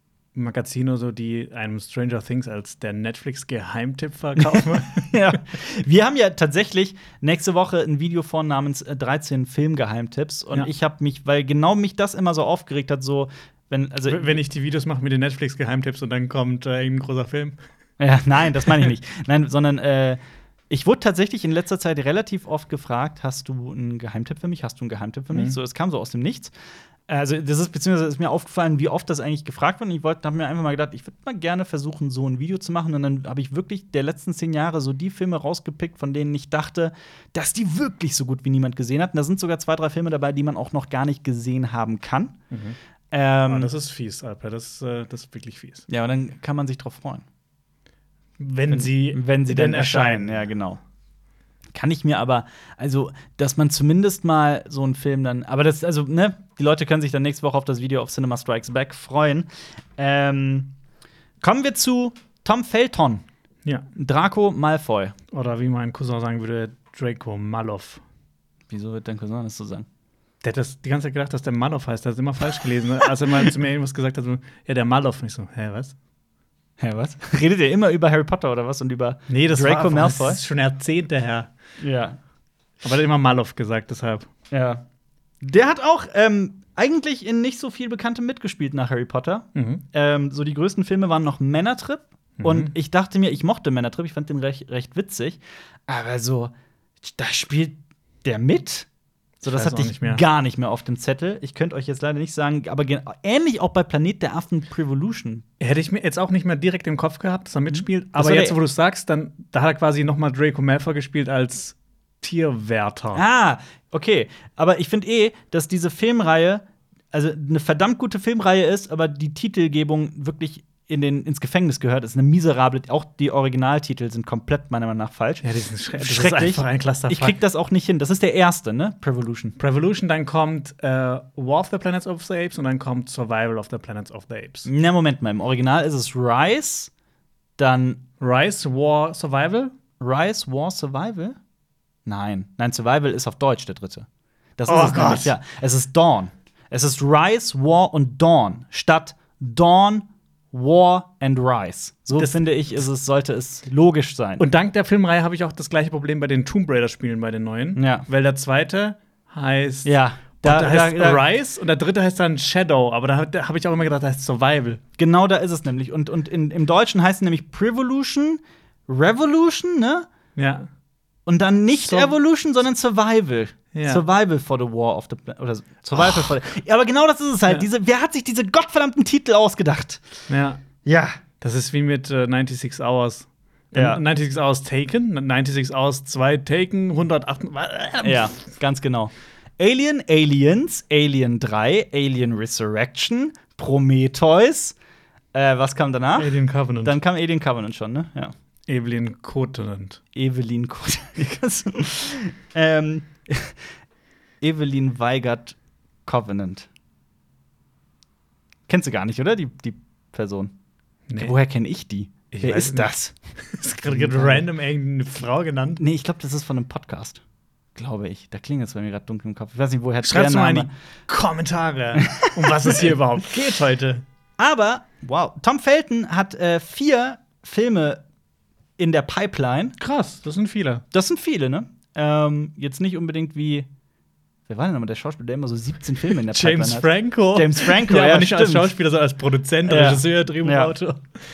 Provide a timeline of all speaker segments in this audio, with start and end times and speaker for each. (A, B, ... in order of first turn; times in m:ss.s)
0:00.3-0:05.3 A
0:04.4-0:14.4 B
0:14.1-0:17.6 A
0:18.0-0:26.5 B
0:27.1-0:42.4 B
0:42.5-0:42.8 A
0:43.1-0:43.7 B
0:43.4-0:45.9 A
0:45.9-0:47.2 B
0:48.4-0:50.4 A
0:48.7-0:50.8 B
0:51.7-1:00.7 B
1:01.4-1:03.2 B
1:03.9-1:05.1 B
1:05.3-1:08.0 A
1:08.7-1:09.9 B
1:10.4-1:15.9 A
1:16.8-1:20.4 B
1:19.3-1:21.5 A
1:21.8-1:22.2 B
1:22.8-1:24.3 A
1:24.5-1:24.8 B
1:25.4-1:38.9 B
1:29.5-1:29.8 A
1:32.4-1:32.7 A
1:39.4-1:45.4 B
1:39.5-1:40.2 A
1:45.6-1:53.2 A
1:47.7-1:48.6 B
1:53.1-2:09.6 B
2:05.4-2:07.4 A
2:09.6-2:14.7 A
2:14.6-2:16.9 B
2:17.6-2:18.0 B
2:18.2-2:19.7 A
2:20.0-2:21.4 B
2:22.0-2:34.4 B
2:24.7-2:25.3 A
2:34.4-2:44.8 A
2:37.8-2:38.1 B
2:39.8-2:41.2 B
2:45.0-2:50.1 B
2:50.4-2:50.7 A
2:51.2-3:00.0 B
2:51.8-2:52.1 A
2:53.7-2:54.0 A
2:56.0-2:56.3 A
3:00.3-3:00.6 A
3:00.8-3:01.2 B
3:01.4-3:08.4 A
3:03.7-3:04.0 B
3:08.0-3:14.8 B
3:15.3-3:18.3 B
3:16.2-3:17.0 A
3:18.7-3:20.0 A
3:20.1-3:23.6 B
3:24.4-3:26.7 B
3:28.7-3:30.5 B
3:31.1-3:31.3 A
3:31.1-3:33.1 B
3:32.3-3:35.8 A
3:33.8-3:34.5 B
3:35.8-3:37.2 B
3:37.8-3:40.7 B
3:40.0-3:44.0 A
3:42.0-3:42.9 B
3:44.4-3:48.0 B
3:48.8-3:49.8 B
3:49.8-3:50.8 A
3:50.9-3:53.7 B
3:54.5-3:58.7 B
3:56.1-4:01.2 A
3:59.6-4:00.7 B